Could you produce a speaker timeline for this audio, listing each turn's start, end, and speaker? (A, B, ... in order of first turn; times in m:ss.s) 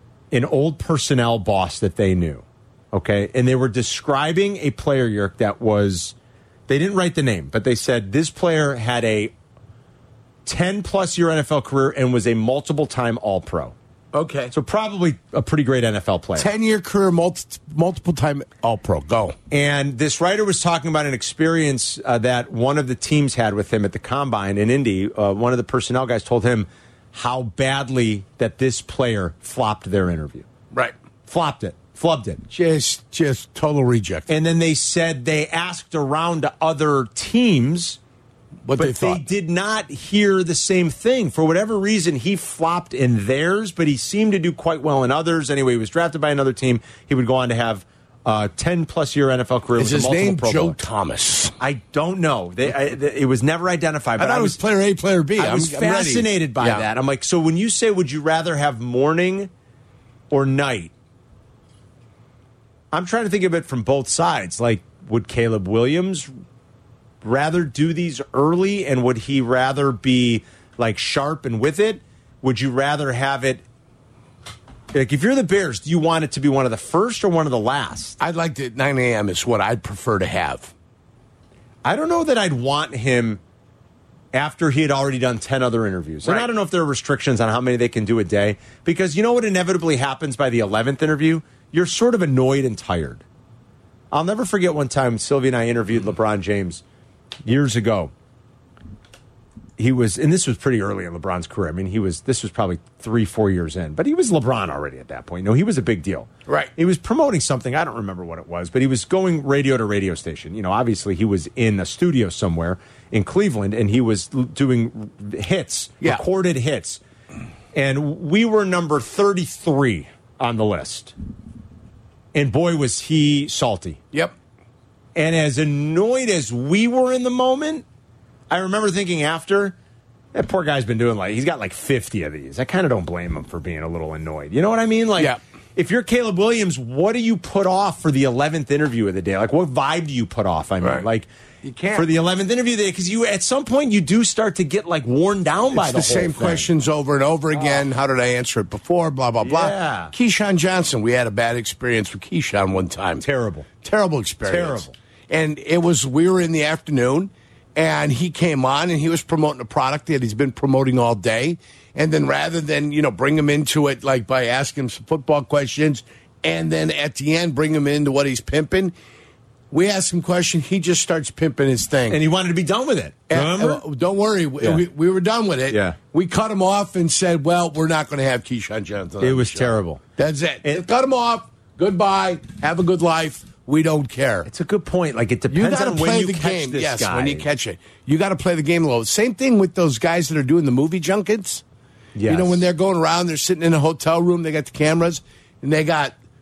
0:00.3-0:06.2 A
0:06.7-0:09.3 A
0:10.4-0:13.8 A
0:14.1-0:14.5 B
0:14.5-0:16.5 A
0:16.4-0:19.4 B
0:19.5-0:30.5 A
0:31.3-0:32.4 A
0:32.5-0:34.3 B
0:34.3-0:38.0 A
0:38.7-0:39.2 B
0:38.8-0:50.8 A
0:49.8-0:51.5 B
0:51.6-0:54.6 A
0:54.2-0:56.9 B
0:55.4-0:59.5 A
1:00.3-1:00.9 A
1:02.9-1:06.3 A
1:07.2-1:13.6 A
1:14.9-1:18.2 A
1:18.2-1:20.7 B
1:21.8-1:23.4 A
1:24.3-1:33.2 A
1:34.1-1:36.8 A
1:37.4-1:38.1 A
1:39.8-1:57.0 A
1:46.5-1:46.7 B
1:57.7-2:01.1 A
2:02.3-2:04.0 A
2:05.2-2:07.8 A
2:08.5-2:09.8 A
2:10.3-2:21.3 A
2:20.8-2:21.1 B
2:21.6-2:22.1 B
2:21.9-2:26.7 A
2:25.7-2:33.2 B
2:29.4-2:30.1 A
2:33.2-2:33.7 A
2:33.8-2:48.9 B
2:34.4-2:34.9 A
2:49.7-2:52.2 B
2:52.1-2:53.8 A
2:53.3-3:04.5 B
2:54.6-2:54.9 A
2:55.7-2:56.0 A
2:59.2-3:00.0 A
3:04.5-3:07.5 A
3:05.5-3:11.6 B
3:12.2-3:12.7 A
3:12.3-3:16.2 B